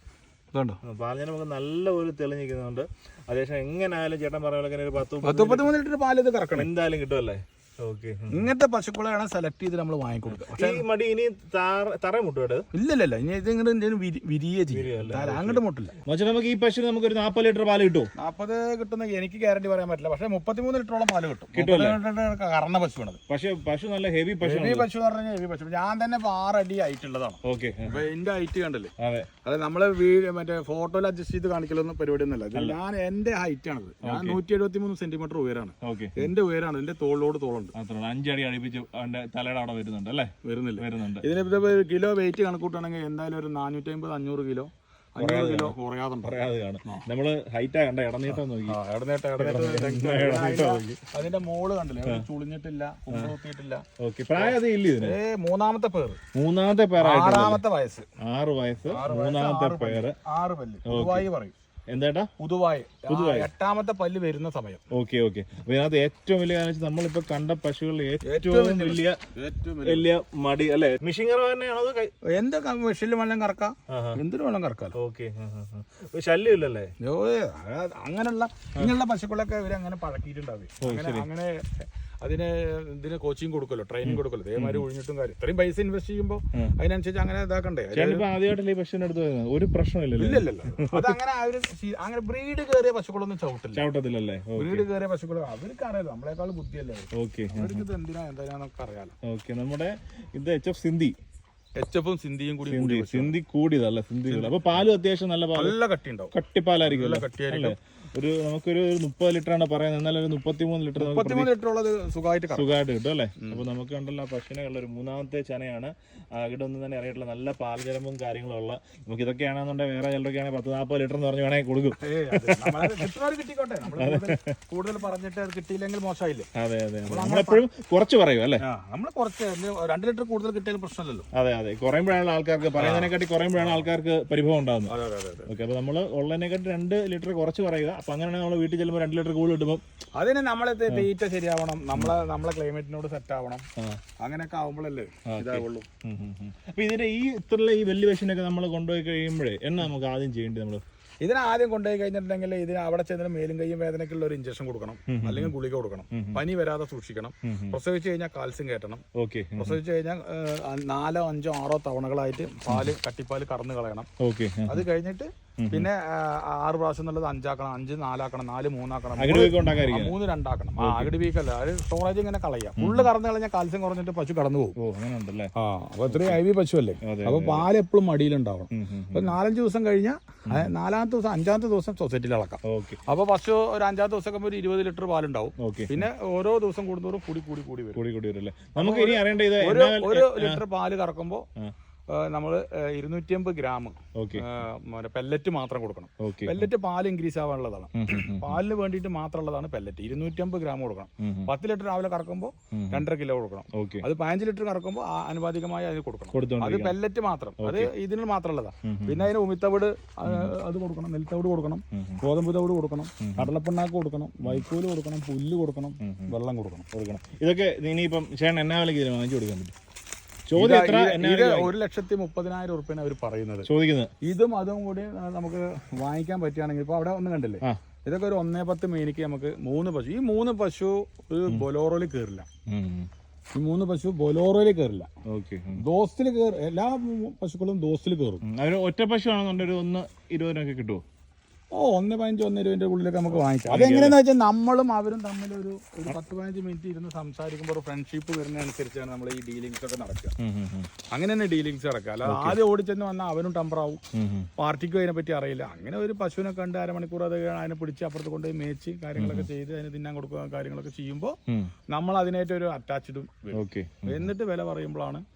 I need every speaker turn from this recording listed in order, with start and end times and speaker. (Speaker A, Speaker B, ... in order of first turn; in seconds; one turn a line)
Speaker A: 0.5-0.8
Speaker B: 0.8-5.7
Speaker A: 5.2-6.7
Speaker B: 6.5-8.5
Speaker A: 8.3-10.8
Speaker B: 10.3-12.7
Speaker A: 12.7-15.9
Speaker B: 14.7-18.1
Speaker A: 18.1-23.2
Speaker B: 21.5-22.0
Speaker B: 23.3-24.9
Speaker A: 24.4-28.9
Speaker B: 27.4-28.0
Speaker B: 29.0-29.3
Speaker A: 29.4-37.7
Speaker B: 34.0-34.4
Speaker B: 35.8-36.3
Speaker B: 37.7-41.2
Speaker A: 40.4-47.1
Speaker B: 45.2-48.8
Speaker A: 48.3-53.8
Speaker B: 49.4-50.9
Speaker B: 54.0-55.1
Speaker A: 54.4-56.2
Speaker B: 56.3-57.6
Speaker A: 57.0-58.0
Speaker B: 58.2-60.2
Speaker A: 58.9-61.5
Speaker B: 60.9-61.2
Speaker B: 61.9-62.3
Speaker A: 62.4-64.8
Speaker B: 63.1-63.5
Speaker B: 64.9-69.2
Speaker A: 68.2-70.1
Speaker B: 69.8-72.1
Speaker A: 72.3-75.0
Speaker B: 73.9-74.2
Speaker B: 75.0-76.9
Speaker A: 77.0-88.2
Speaker B: 80.8-81.3
Speaker B: 84.0-84.8
Speaker B: 87.9-91.2
Speaker A: 90.2-93.8
Speaker B: 93.7-94.8
Speaker A: 94.5-99.1
Speaker B: 97.2-97.8
Speaker B: 99.2-101.2
Speaker A: 101.8-103.3
Speaker B: 102.7-105.8
Speaker A: 104.3-104.7
Speaker A: 105.5-107.8
Speaker B: 106.3-111.5
Speaker A: 111.0-112.7
Speaker B: 112.5-123.0
Speaker A: 122.0-126.5
Speaker B: 124.0-124.5
Speaker B: 126.5-128.6
Speaker A: 127.1-127.6
Speaker A: 128.6-131.3
Speaker B: 131.3-134.9
Speaker A: 132.8-133.8
Speaker A: 134.9-135.5
Speaker B: 135.4-139.8
Speaker A: 140.2-143.7
Speaker A: 144.2-145.9
Speaker B: 145.2-150.8
Speaker A: 151.2-159.0
Speaker B: 155.1-155.5
Speaker B: 156.1-156.4
Speaker B: 157.4-157.8
Speaker B: 159.2-159.8
Speaker A: 159.6-164.1
Speaker B: 162.7-162.9
Speaker B: 164.2-164.8
Speaker A: 164.7-174.8
Speaker B: 165.6-165.9
Speaker B: 169.2-170.2
Speaker B: 170.8-171.1
Speaker B: 172.8-173.1
Speaker B: 174.8-175.5
Speaker A: 175.5-188.0
Speaker B: 176.1-176.4
Speaker B: 177.0-177.7
Speaker B: 178.7-179.3
Speaker B: 182.7-183.0
Speaker B: 185.6-186.1
Speaker B: 187.9-190.6
Speaker A: 188.8-191.4
Speaker A: 192.1-216.8
Speaker B: 194.2-194.4
Speaker B: 196.2-196.7
Speaker B: 197.9-198.6
Speaker B: 201.2-201.5
Speaker B: 202.7-203.0
Speaker B: 203.7-204.0
Speaker B: 206.3-206.9
Speaker B: 207.6-207.9
Speaker B: 208.8-209.3
Speaker B: 210.2-210.5
Speaker B: 211.9-212.2
Speaker B: 213.2-213.5
Speaker B: 216.0-216.3
Speaker B: 216.9-219.7
Speaker B: 220.5-221.7
Speaker A: 220.6-223.7
Speaker B: 223.7-224.1
Speaker A: 224.2-232.4
Speaker B: 232.7-233.1
Speaker A: 233.5-235.1
Speaker B: 235.3-235.8
Speaker A: 235.8-238.4
Speaker B: 238.4-241.0
Speaker A: 241.7-250.3
Speaker B: 243.7-244.2
Speaker B: 250.4-250.9
Speaker A: 251.1-254.0
Speaker B: 252.2-252.6
Speaker B: 254.1-254.5
Speaker A: 254.6-261.4
Speaker B: 259.2-259.5
Speaker A: 261.9-265.2
Speaker B: 263.5-264.3